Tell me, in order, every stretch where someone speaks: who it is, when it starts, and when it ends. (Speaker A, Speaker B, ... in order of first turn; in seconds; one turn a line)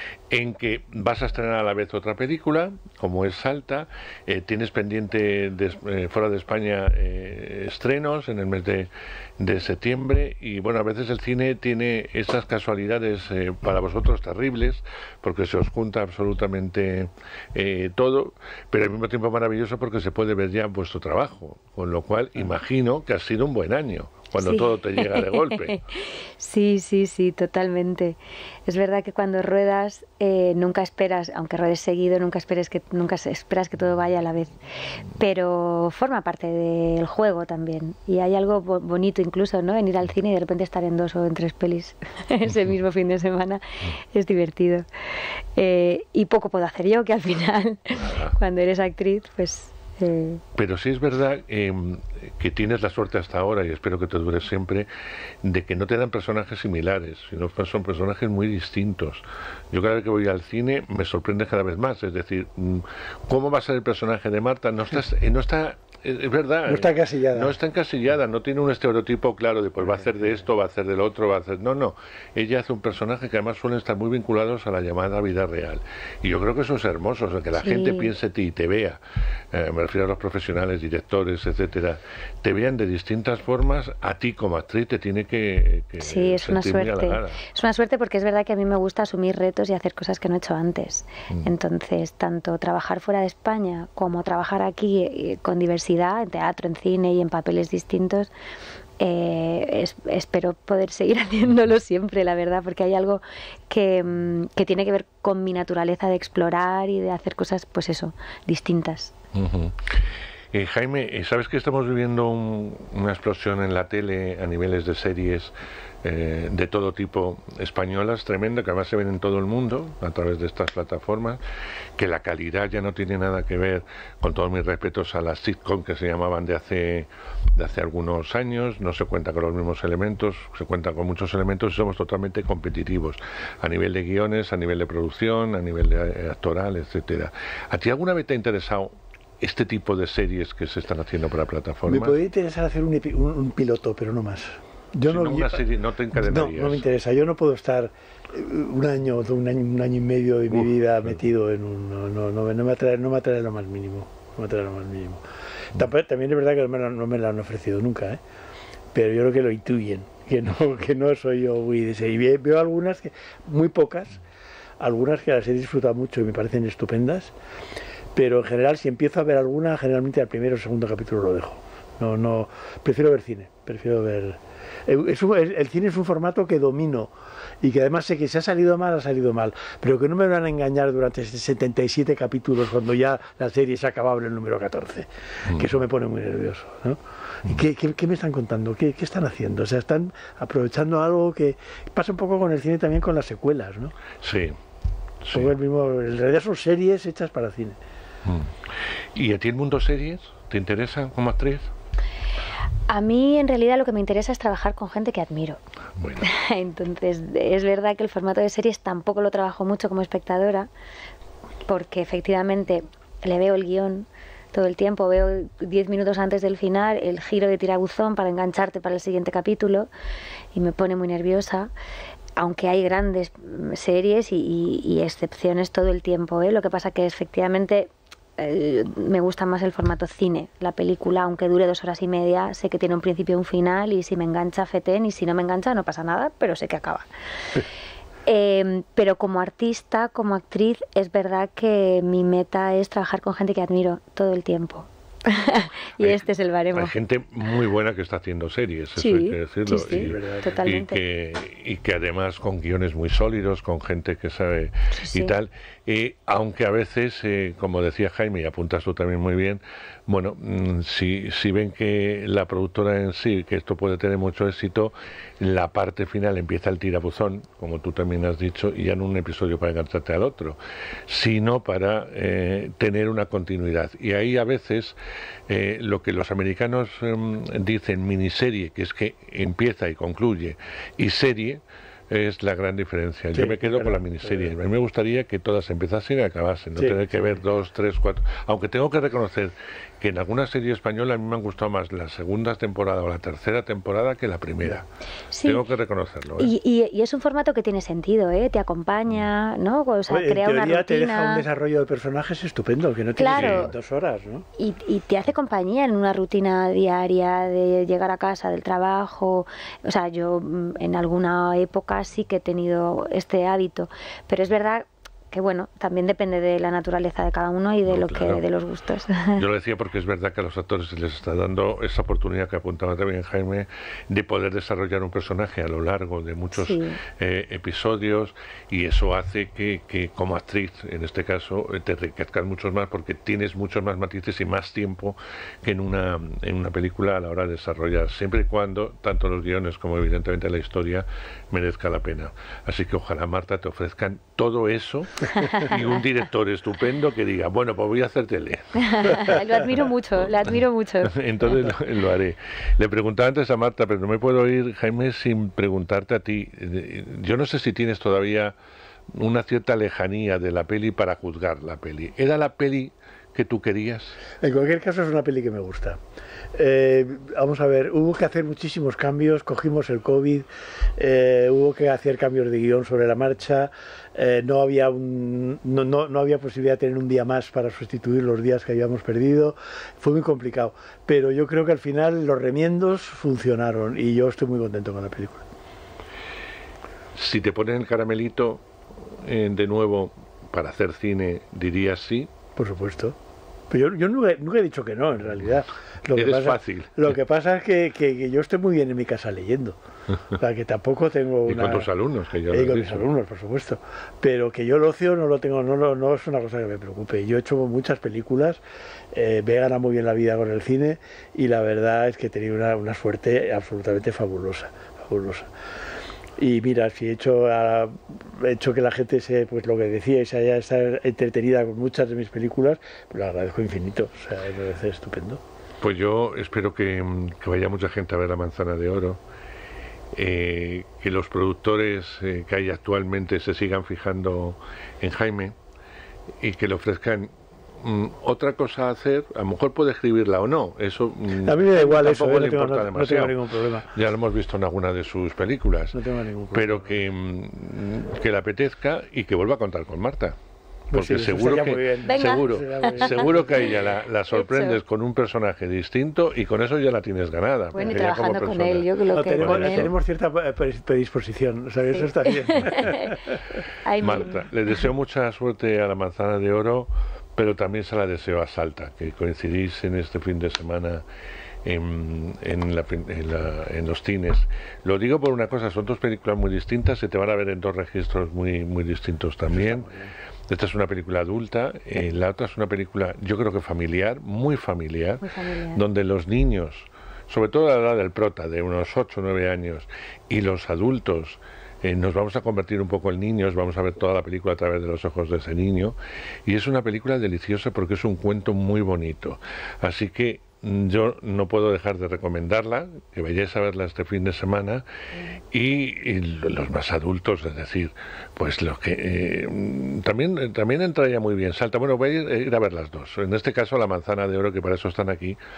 Speaker A: 0.3-25.8
Speaker B: 24.4-44.9
Speaker B: 45.5-50.4
Speaker A: 47.9-48.4
Speaker A: 50.5-54.9
Speaker A: 55.4-79.0
Speaker C: 66.7-67.5
Speaker B: 77.6-78.1
Speaker A: 79.5-87.4
Speaker B: 86.0-98.3
Speaker B: 99.0-109.1
Speaker A: 109.3-121.4
Speaker A: 122.0-142.2
Speaker C: 141.8-155.2
Speaker A: 145.0-146.8
Speaker A: 150.5-151.2
Speaker C: 155.7-158.2
Speaker C: 158.9-164.2
Speaker C: 164.8-167.3
Speaker C: 168.1-193.9
Speaker A: 185.4-185.7
Speaker A: 194.2-194.6
Speaker A: 195.2-195.5
Speaker C: 195.3-197.8
Speaker A: 198.2-201.7
Speaker B: 202.9-205.6
Speaker A: 206.0-206.3
Speaker B: 206.2-210.7
Speaker B: 211.7-219.9
Speaker B: 220.5-221.7
Speaker B: 222.4-237.1
Speaker B: 238.2-246.9
Speaker A: 246.0-270.6
Speaker B: 249.0-251.0
Speaker C: 249.8-250.6
Speaker B: 254.9-255.3
Speaker A: 271.1-274.9
Speaker A: 275.5-294.8
Speaker C: 283.3-284.5
Speaker B: 295.3-295.6
Speaker A: 295.4-296.5
Speaker B: 296.4-301.4
Speaker C: 300.1-304.4
Speaker B: 303.2-303.7
Speaker A: 303.3-303.7
Speaker B: 304.6-319.4
Speaker A: 317.9-318.4
Speaker A: 319.4-349.4
Speaker B: 326.5-327.0
Speaker B: 348.8-351.2
Speaker A: 351.1-358.5
Speaker A: 359.1-364.2
Speaker C: 364.4-366.0
Speaker C: 366.5-385.5
Speaker A: 387.1-392.3
Speaker C: 392.6-393.1
Speaker C: 393.7-399.8
Speaker A: 396.1-397.1
Speaker C: 400.4-401.9
Speaker A: 401.5-403.1
Speaker C: 402.5-415.5
Speaker C: 416.4-425.4
Speaker A: 425.8-429.2
Speaker A: 430.1-435.5
Speaker A: 436.4-446.0
Speaker C: 441.4-443.9
Speaker C: 445.9-446.9
Speaker A: 446.5-450.4
Speaker C: 450.9-453.6
Speaker A: 450.9-458.9
Speaker B: 452.1-453.3
Speaker B: 454.3-454.8
Speaker B: 457.7-459.9
Speaker C: 459.1-463.2
Speaker A: 459.4-459.9
Speaker B: 461.9-463.2
Speaker B: 463.8-464.3
Speaker A: 464.0-471.0
Speaker A: 471.6-479.9
Speaker C: 479.5-480.1
Speaker A: 480.5-504.9
Speaker B: 485.2-485.8
Speaker A: 505.5-515.4